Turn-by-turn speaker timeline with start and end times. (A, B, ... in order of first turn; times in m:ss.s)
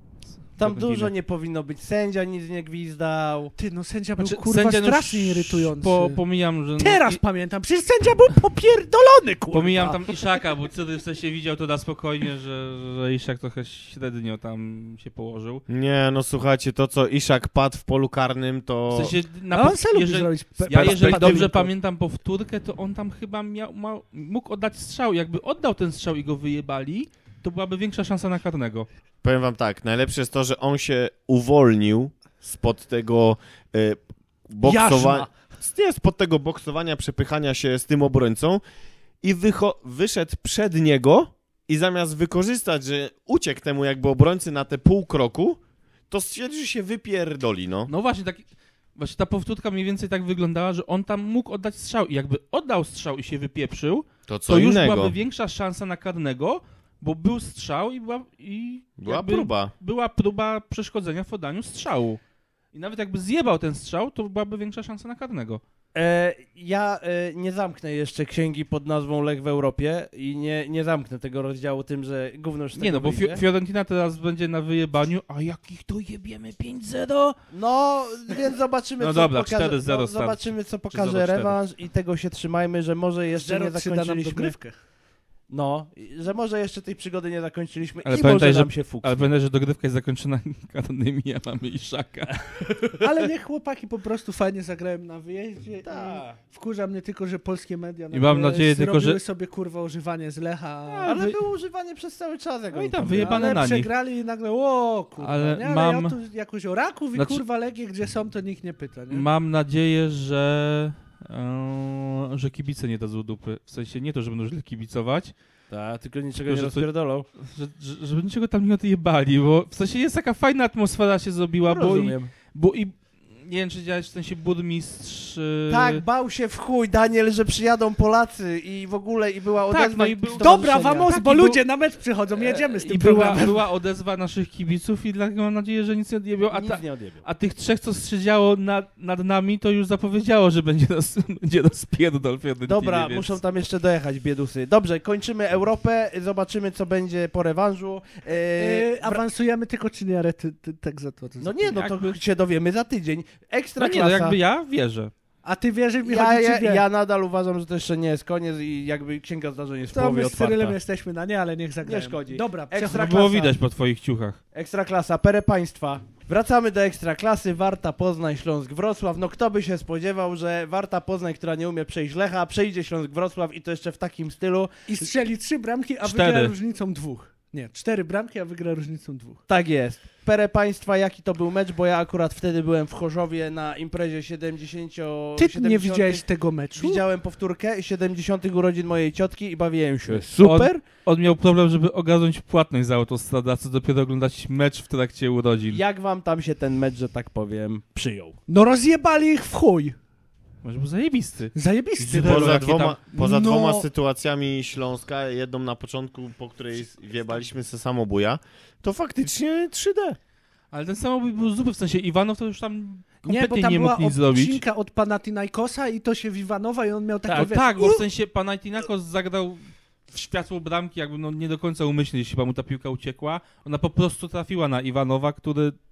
0:00.3-0:01.1 A
0:00.6-0:03.6 B
0:03.6-0:06.2 C
0:04.2-0:07.2 A
0:06.8-0:10.2 C
0:09.5-0:15.6 A
0:15.7-0:19.1 D
0:18.9-0:28.9 A
0:19.5-0:21.7 C
0:20.8-0:21.5 B
0:29.2-0:38.6 D
0:34.6-0:35.3 C
0:39.2-0:47.9 D
0:47.9-0:48.4 A
0:49.0-1:02.2 A
0:54.3-0:55.2 D
0:59.0-0:59.7 D
1:02.7-1:05.6 A
1:06.0-1:13.4 B
1:12.8-1:17.4 A
1:17.5-1:24.6 B
1:19.0-1:21.6 A
1:23.4-1:24.8 C
1:25.5-1:29.3 B
1:28.0-1:32.5 A
1:32.5-1:33.0 B
1:33.0-1:41.1 C
1:35.8-1:36.4 B
1:38.1-1:39.2 A
1:40.9-1:43.7 B
1:41.0-1:41.4 A
1:42.7-1:43.9 A
1:43.1-1:49.3 C
1:45.2-1:46.2 A
1:47.2-1:47.4 A
1:49.1-1:55.3 A
1:55.7-1:57.3 B
1:56.5-2:06.0 A
2:01.6-2:02.3 B
2:05.7-2:11.1 B
2:09.7-2:11.6 A
2:10.4-2:13.6 C
2:12.5-2:23.4 A
2:16.5-2:17.2 B
2:22.7-2:29.2 B
2:28.6-2:31.8 C
2:31.4-2:34.4 B
2:31.8-2:32.2 A
2:33.8-2:35.1 A
2:35.4-2:36.8 C
2:36.0-2:40.8 B
2:39.9-2:43.5 C
2:41.8-2:43.5 B
2:42.9-2:44.4 A
2:44.5-2:54.7 B
2:54.9-2:59.4 C
2:56.0-2:56.5 A
2:59.5-3:10.8 B
3:05.4-3:07.0 C
3:10.2-3:15.8 A
3:15.7-3:18.4 B
3:18.5-3:20.0 C
3:20.6-3:23.0 A
3:21.6-3:23.9 C
3:22.1-3:30.2 D
3:30.7-3:34.6 A
3:33.3-3:38.0 C
3:37.3-3:37.6 B
3:37.3-3:45.8 A